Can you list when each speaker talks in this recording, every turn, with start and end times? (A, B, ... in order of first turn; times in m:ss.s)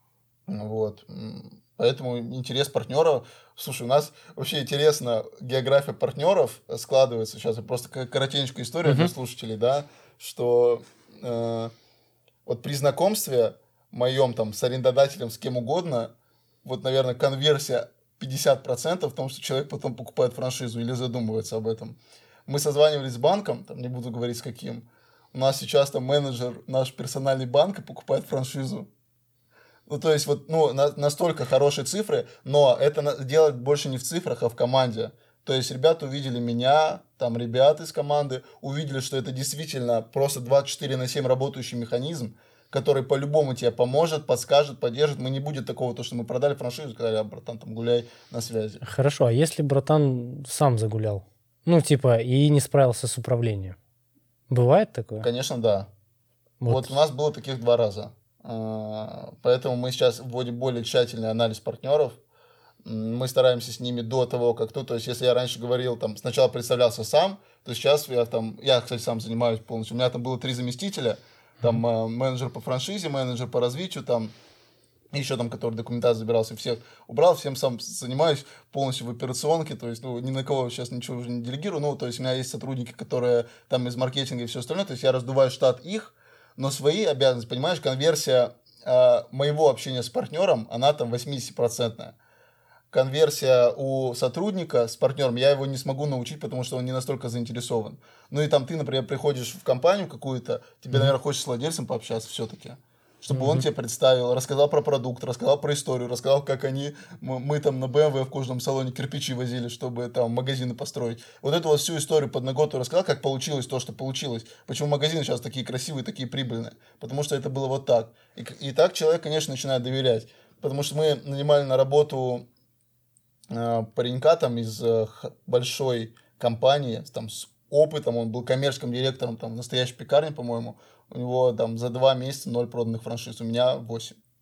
0:00.5-0:11.7 A
0:08.8-0:09.1 B
0:12.5-0:16.1 A
0:16.6-0:28.9 A
0:29.9-0:48.8 A
0:48.8-0:53.8 B
0:54.5-0:55.3 B
0:55.2-0:55.9 A
0:56.6-0:57.0 B
0:56.7-1:02.2 A
1:02.8-1:14.3 A
1:15.1-1:32.2 A
1:32.9-2:02.4 A
1:43.3-1:43.7 B
2:03.5-2:14.2 A